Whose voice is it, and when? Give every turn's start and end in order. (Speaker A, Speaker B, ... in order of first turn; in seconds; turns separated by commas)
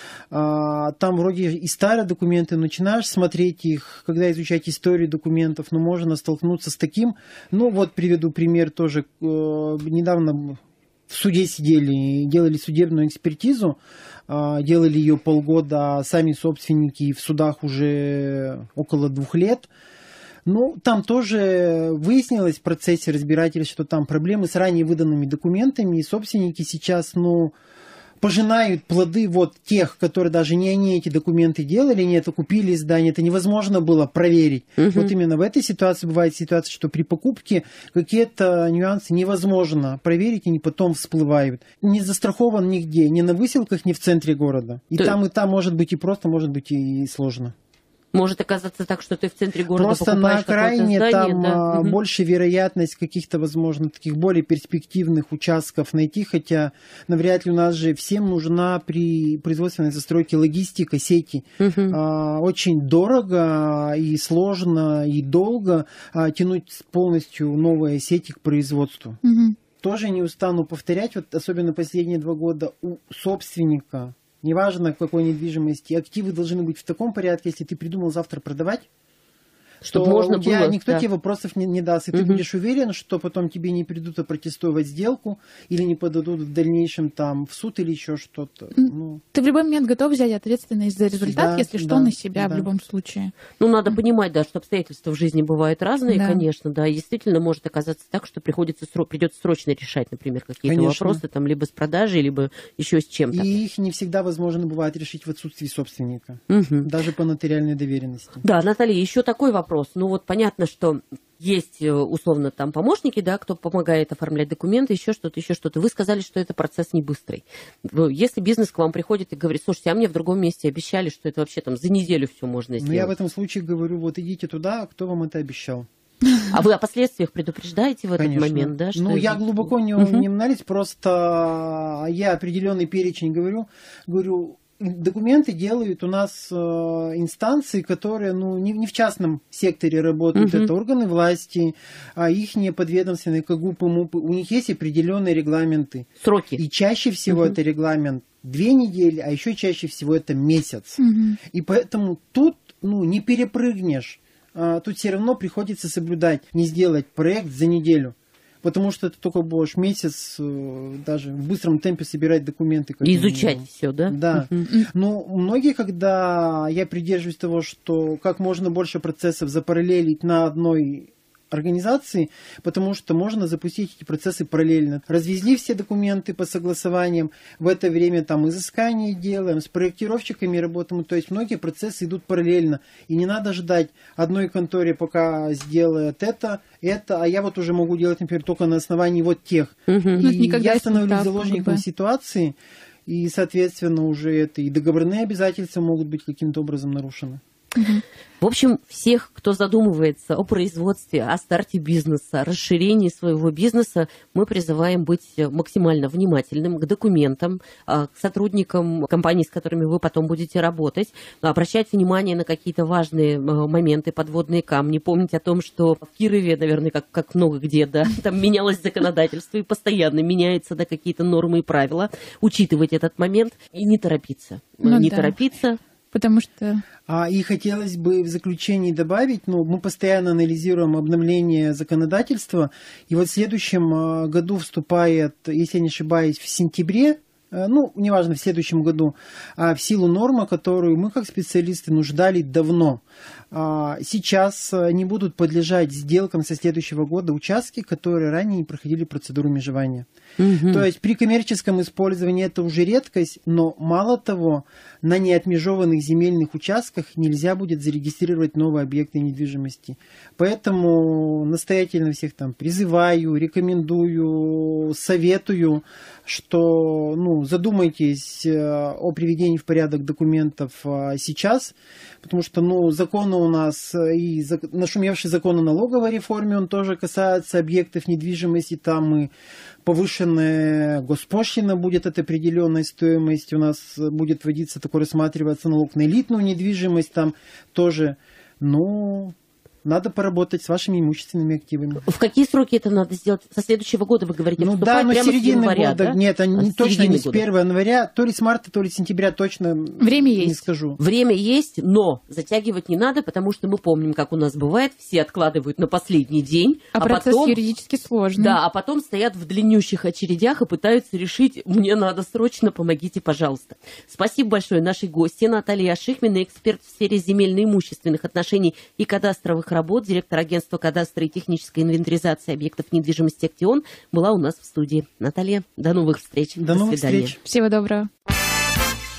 Speaker A: 0.3-19.7, Speaker A: 20.5-27.5, Speaker A: 28.2-47.5, Speaker B: 34.8-35.1, Speaker B: 48.1-52.0, Speaker A: 49.7-69.2, Speaker B: 61.6-62.0, Speaker C: 69.2-69.6, Speaker A: 69.8-78.9, Speaker B: 79.8-81.0, Speaker A: 79.9-89.2, Speaker B: 82.1-82.4, Speaker C: 88.8-93.3, Speaker A: 91.2-92.7, Speaker B: 93.6-103.5, Speaker C: 96.1-96.4, Speaker A: 100.7-101.2, Speaker A: 103.3-108.4, Speaker B: 106.5-106.9, Speaker B: 108.4-123.1, Speaker A: 122.8-125.9, Speaker B: 126.5-130.3, Speaker A: 128.2-197.4, Speaker B: 140.3-140.7, Speaker B: 146.2-146.6, Speaker B: 147.3-147.5, Speaker C: 151.0-151.4, Speaker B: 163.0-164.7, Speaker B: 189.9-190.3, Speaker C: 190.2-191.8, Speaker C: 197.8-198.0, Speaker B: 198.4-225.8, Speaker C: 224.8-225.4, Speaker C: 226.1-226.8, Speaker A: 227.1-250.1, Speaker B: 250.4-250.8, Speaker A: 250.7-279.3, Speaker A: 279.8-292.1, Speaker B: 292.0-297.4, Speaker A: 294.6-301.0, Speaker C: 300.0-300.6, Speaker B: 301.0-307.6, Speaker C: 306.9-308.6, Speaker B: 308.4-327.3, Speaker A: 326.6-327.4, Speaker C: 327.4-328.1